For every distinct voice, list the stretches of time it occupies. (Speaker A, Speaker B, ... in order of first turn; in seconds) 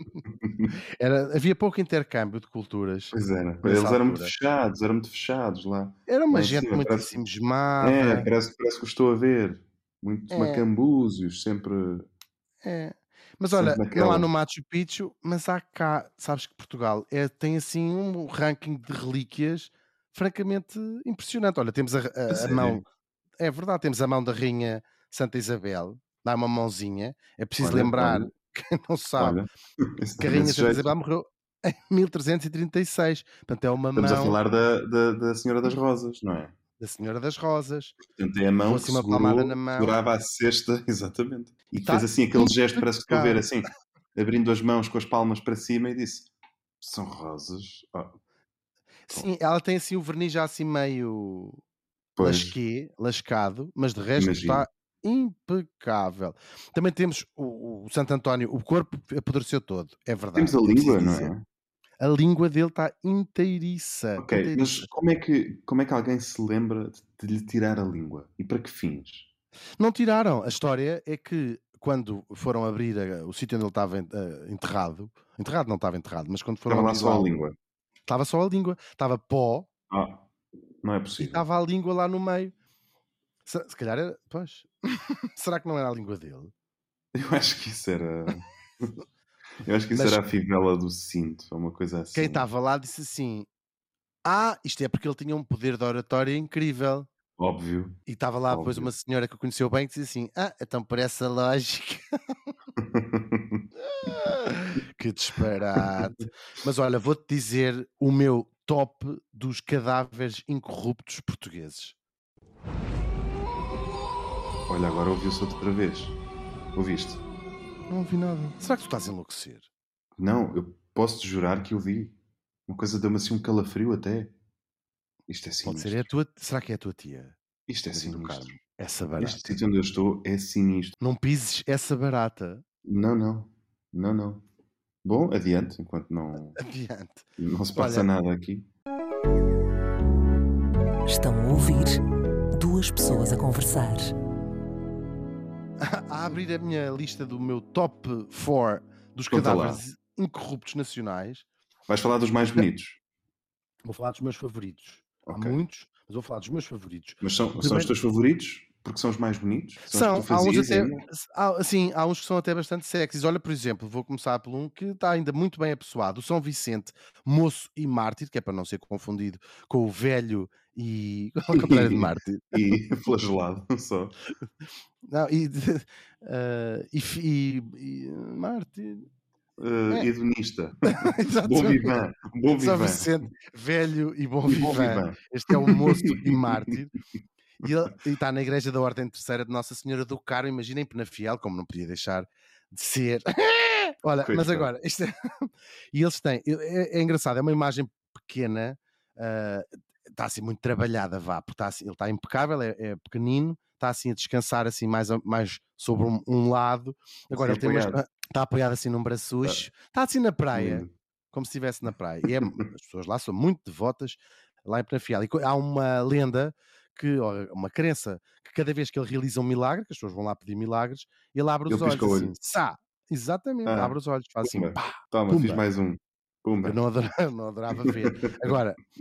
Speaker A: 0.3-0.7, 3.1-7.1, 7.8-12.1, 13.5-14.3, 22.3-22.8, 27.6-28.3, 29.2-30.9, 34.0-36.5, 38.0-46.3, 46.8-48.2, 52.2-52.6, 54.2-54.7, 60.4-61.5, 64.2-69.3, 76.7-77.5, 79.9-80.3, 80.8-81.4, 87.1-88.9, 89.6-92.5, 97.4-98.0, 98.5-98.9, 102.8-103.7, 114.7-116.2, 116.8-117.2, 120.2-122.2, 122.7-124.3, 125.3-126.1, 127.7-128.5, 129.2-130.9, 132.8-134.4, 135.0-136.6, 137.4-138.7, 149.3-149.8, 151.9-153.0, 155.3-155.6, 157.2-161.1, 171.5-174.2, 179.6-183.1, 184.5-186.7, 194.2-194.7, 207.3-208.0, 210.5-210.9, 221.7-222.3, 223.7-226.8, 227.8-228.5
Speaker B: 1.0-4.3, 6.1-8.3, 10.3-10.7, 12.6-22.8, 23.4-29.4, 30.2-34.4, 36.8-38.0, 38.6-40.0, 41.8-43.4, 49.1-51.6, 52.2-61.3, 62.0-64.9, 69.8-77.3, 78.1-79.7, 81.2-82.5, 83.5-86.5, 89.9-90.2, 92.1-93.5, 94.2-97.1, 98.1-102.0, 103.9-112.0, 117.9-119.7, 125.7-127.4, 127.9-129.6, 131.0-132.6, 136.6-138.1, 145.8-151.4, 153.8-157.9, 159.8-172.7, 175.1-179.1, 180.8-186.9, 187.6-225.6, 226.6-228.8
Speaker C: 141.1-142.0, 142.5-144.1